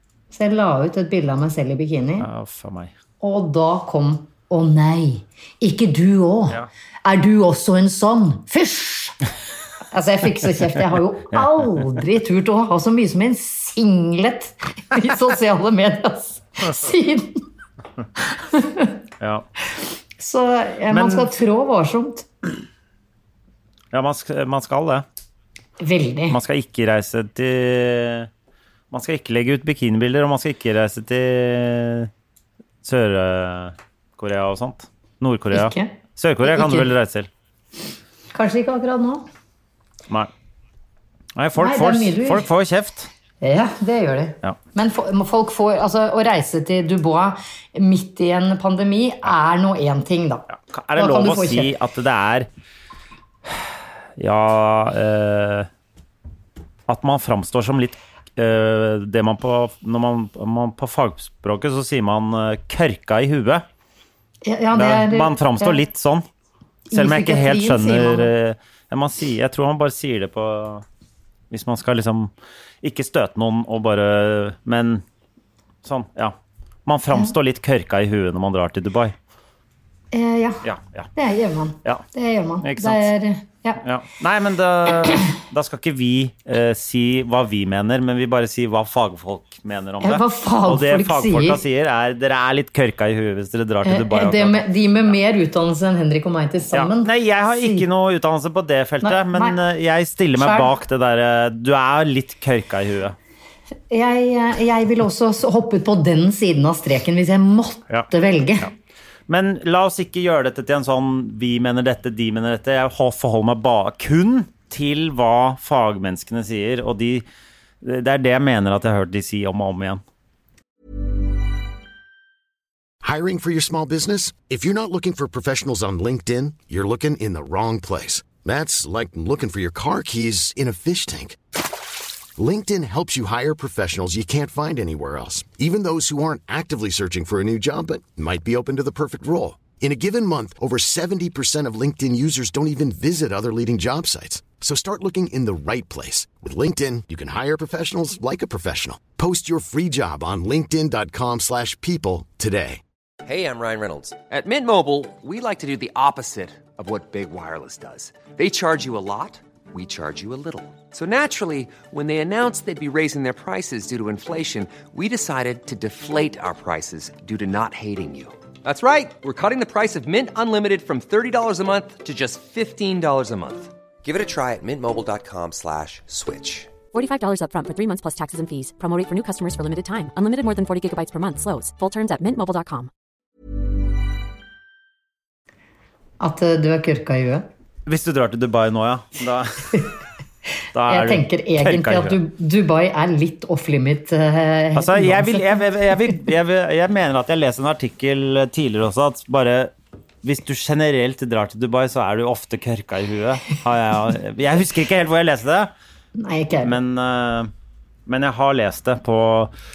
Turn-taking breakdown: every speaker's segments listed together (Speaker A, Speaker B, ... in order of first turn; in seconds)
Speaker A: 0.3-2.3, 3.2-9.2, 9.9-17.4, 18.3-19.0, 20.2-22.5, 25.8-26.4, 35.5-35.9, 36.5-36.9, 38.3-39.2, 41.6-42.5, 43.4-51.7, 64.5-65.8, 66.9-68.3, 80.1-80.6, 81.2-83.8, 90.0-91.6, 93.8-97.8, 99.0-99.6, 100.4-100.7, 103.9-108.7, 186.2-187.5, 190.9-195.5, 206.2-206.8
Speaker B: 2.2-2.9, 19.2-19.4, 20.9-21.3, 23.9-25.1, 26.3-28.3, 28.9-32.1, 32.8-37.3, 41.4-43.1, 50.5-52.5, 53.5-55.7, 56.9-63.6, 64.7-66.2, 66.9-70.8, 71.5-72.3, 72.8-75.0, 75.8-76.3, 76.9-79.2, 80.6-81.1, 82.6-83.1, 83.8-94.7, 96.7-103.2, 109.3-117.2, 117.8-120.0, 187.9-189.8, 190.7-192.2, 194.8-199.7, 200.2-205.7, 206.6-207.5, 208.1-209.5
Speaker C: 123.0-131.4, 132.4-152.8
Speaker D: 153.2-176.7
Speaker E: 176.9-182.9